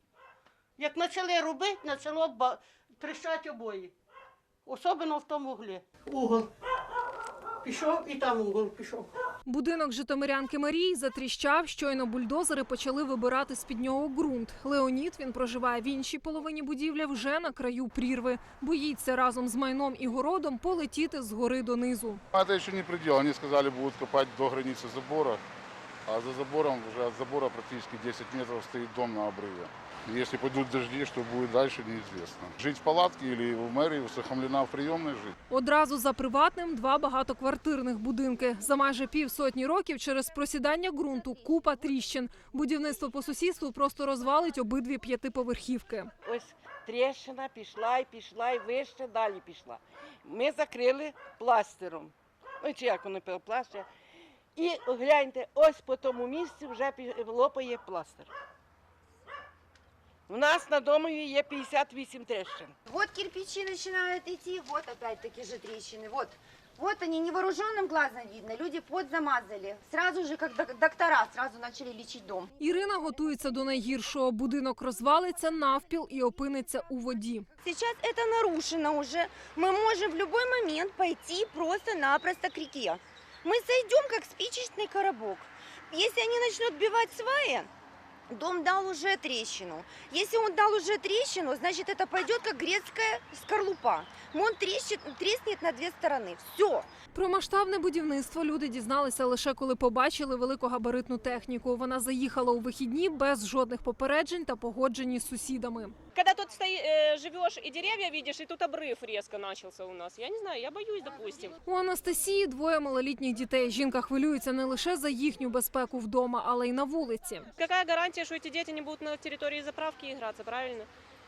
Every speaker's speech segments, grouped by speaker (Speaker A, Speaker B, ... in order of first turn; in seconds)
Speaker A: 0.8-3.9, 4.7-6.5, 7.7-9.1
Speaker B: 9.5-22.2, 35.5-46.1, 72.6-77.5, 97.1-106.0, 111.7-117.5
Speaker C: 22.3-25.4, 26.1-35.3
Speaker D: 46.2-53.9, 54.5-58.3, 60.3-62.8
Speaker E: 62.9-72.5, 77.6-87.7, 88.3-96.9
Speaker F: 106.1-111.5, 117.6-120.9